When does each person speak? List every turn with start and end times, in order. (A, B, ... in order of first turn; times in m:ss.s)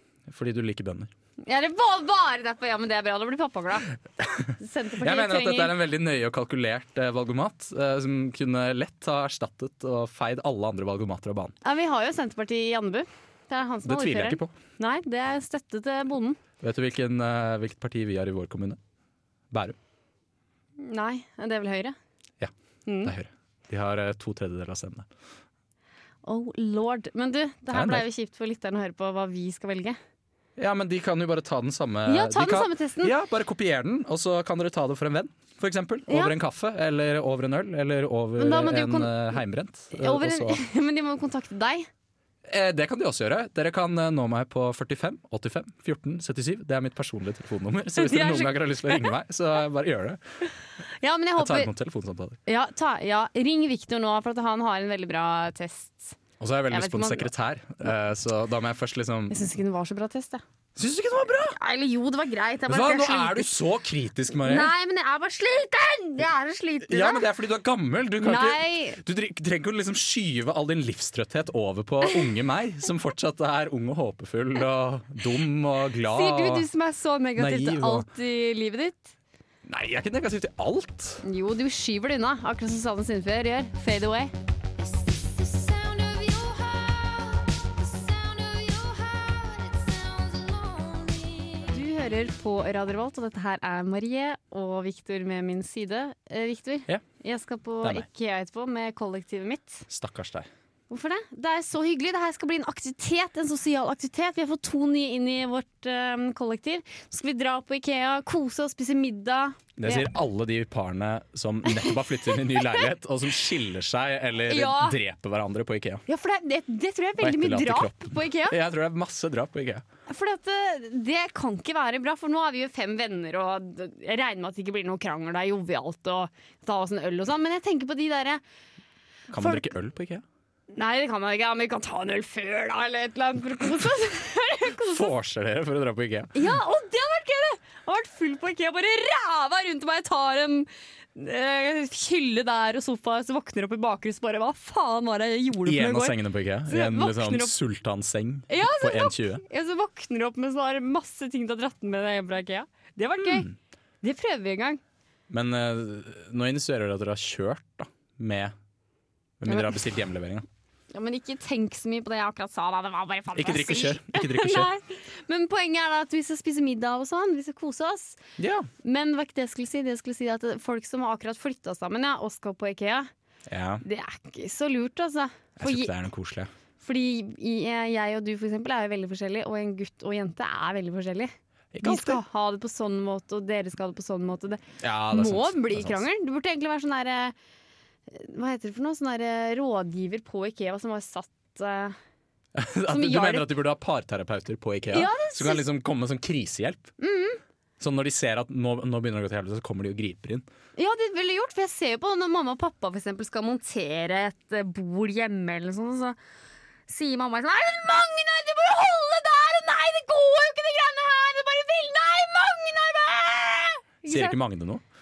0:00.3-0:01.1 A
0:01.4-0:03.9 B
0:04.2-0:11.5 A
0:04.6-0:05.7 B
0:11.6-0:16.4 B
0:13.8-0:14.5 A
0:16.6-0:18.8 A
0:19.5-0:19.8 A
0:20.8-0:22.0 B
0:22.8-0:23.1 B
0:23.0-0:25.1 A
0:26.2-0:30.0 B
0:27.7-0:28.0 A
0:30.6-0:40.6 A
0:32.1-0:33.1 B
0:36.1-0:36.3 B
0:38.4-0:39.4 B
0:39.9-0:41.9 B
0:42.4-0:50.2 A
0:48.0-0:49.1 B
0:51.0-0:51.7 B
0:51.4-0:52.4 A
0:52.4-0:56.2 B
0:56.4-0:59.4 A
0:56.7-0:57.3 B
0:59.3-1:00.4 B
1:00.8-1:01.6 A
1:01.5-1:03.5 B
1:02.7-1:04.7 A
1:04.4-1:07.2 B
1:06.9-1:16.6 A
1:08.2-1:09.0 B
1:16.1-1:19.1 B
1:17.4-1:18.1 A
1:19.6-1:21.2 A
1:21.2-1:24.3 B
1:25.1-1:29.9 B
1:31.0-1:39.8 B
1:37.8-1:38.1 A
1:39.9-1:40.5 A
1:40.9-1:50.1 B
1:49.8-1:56.0 A
1:51.7-1:52.8 B
1:54.5-1:55.0 B
1:56.1-1:58.6 B
1:57.2-1:59.8 A
2:00.1-2:08.4 B
2:09.3-2:10.2 A
2:09.4-2:09.7 B
2:10.7-2:15.1 B
2:14.8-2:16.5 A
2:16.3-2:27.5 B
2:25.6-2:29.4 A
2:28.5-2:34.8 B
2:33.2-2:33.5 A
2:35.3-2:38.5 A
2:39.4-2:40.4 A
2:39.5-2:39.7 B
2:40.9-2:48.2 B
2:43.3-2:44.7 A
2:48.4-2:48.7 A
2:48.8-2:53.1 B
2:53.5-2:53.8 A
2:53.8-2:55.9 B
2:55.6-2:56.5 A
2:56.8-3:07.3 B
3:01.7-3:02.2 A
3:04.8-3:06.0 A
3:08.1-3:12.0 B
3:12.5-3:16.9 A
3:12.9-3:13.5 B
3:14.9-3:15.6 B
3:17.0-3:17.4 B
3:17.8-3:20.4 A
3:20.8-3:26.2 B
3:26.9-3:34.4 B
3:34.0-3:34.8 A